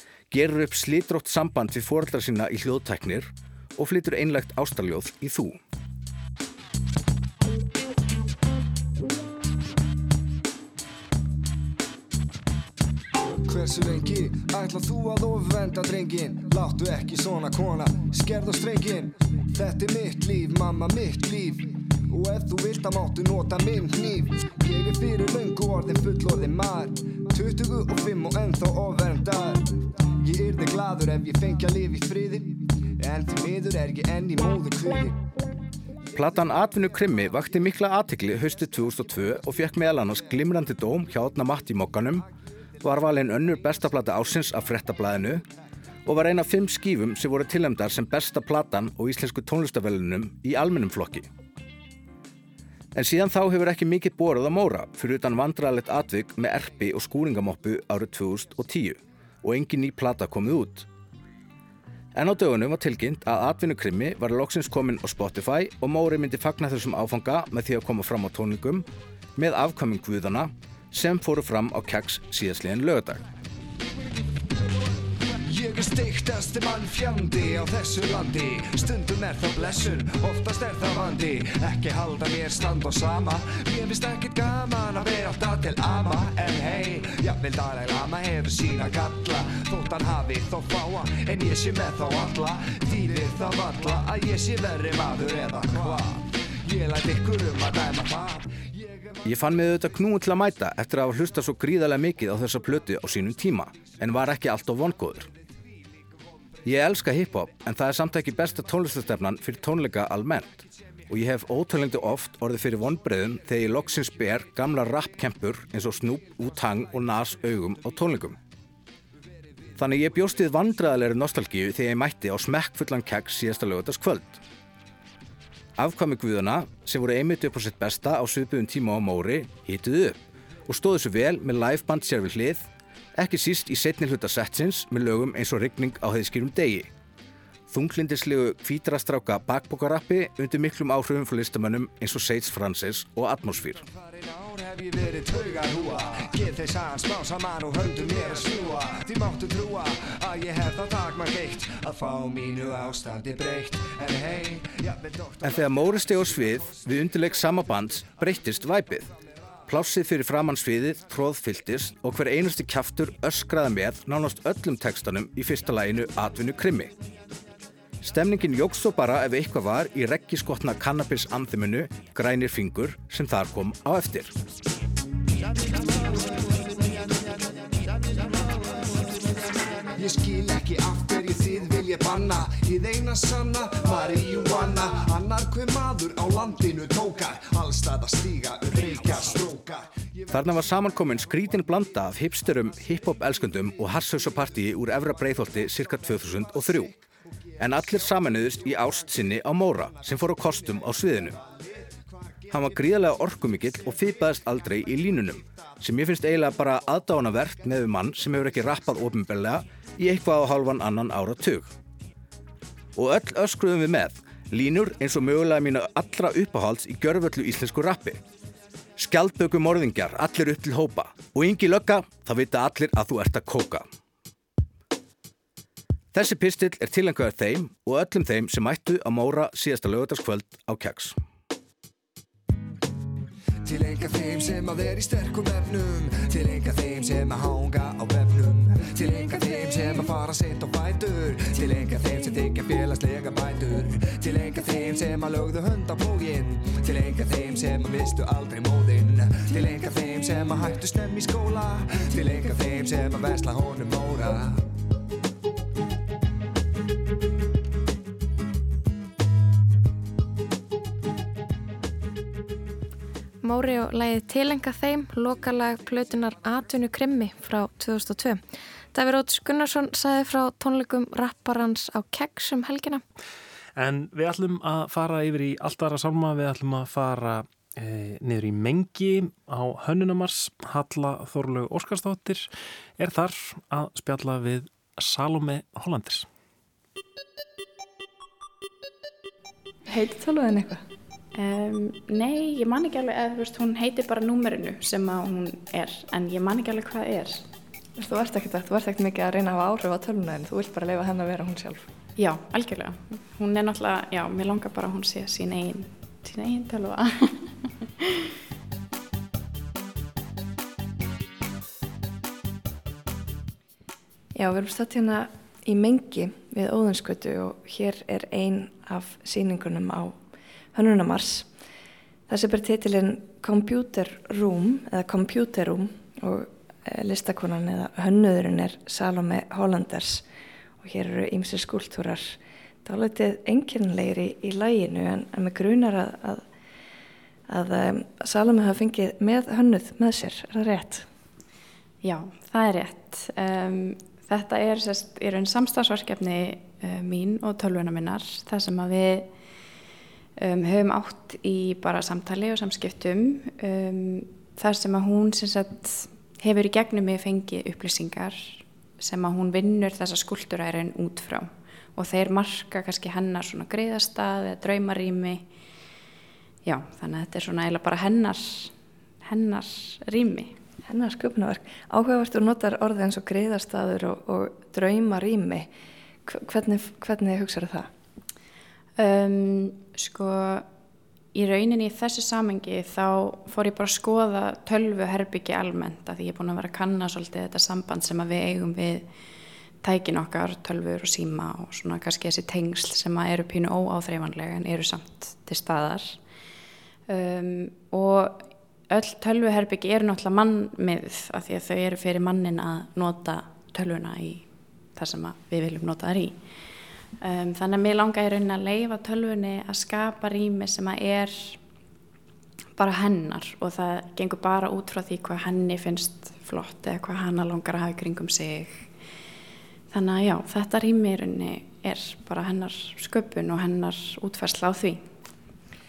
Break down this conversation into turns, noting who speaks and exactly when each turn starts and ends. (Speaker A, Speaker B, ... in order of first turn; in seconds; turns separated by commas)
Speaker A: 0.3-5.6, Speaker B: 13.3-35.2, Speaker A: 36.1-42.3, Speaker A: 42.8-45.4, Speaker A: 46.0-51.3, Speaker A: 52.9-60.9, Speaker A: 62.1-73.2, Speaker B: 75.4-99.2, Speaker A: 99.2-105.3, Speaker A: 106.6-118.4, Speaker A: 119.8-124.4, Speaker A: 125.8-136.9, Speaker A: 137.7-143.8, Speaker B: 143.9-156.4, Speaker A: 155.4-159.1, Speaker A: 159.7-166.9, Speaker A: 168.0-174.3, Speaker B: 179.9-190.3, Speaker A: 190.3-197.0, Speaker A: 197.6-201.4, Speaker A: 202.5-211.7, Speaker A: 212.9-218.2, Speaker A: 219.0-223.9, Speaker A: 226.1-231.2, Speaker B: 233.6-254.6, Speaker C: 263.4-268.4, Speaker C: 268.9-273.0, Speaker D: 273.8-286.3, Speaker E: 289.9-290.8, Speaker F: 291.3-297.5, Speaker E: 297.9-301.9, Speaker F: 302.2-308.3, Speaker E: 314.3-320.2, Speaker E: 320.7-321.5, Speaker E: 322.3-330.2, Speaker E: 330.8-336.4, Speaker E: 337.5-341.1, Speaker F: 342.0-349.3, Speaker F: 350.4-365.5, Speaker F: 366.6-370.6, Speaker E: 370.8-375.7, Speaker E: 376.2-377.9, Speaker F: 379.0-380.7, Speaker F: 381.3-389.1, Speaker F: 389.8-396.2, Speaker F: 397.1-406.5, Speaker F: 407.2-411.6, Speaker F: 412.8-418.9, Speaker F: 419.9-425.1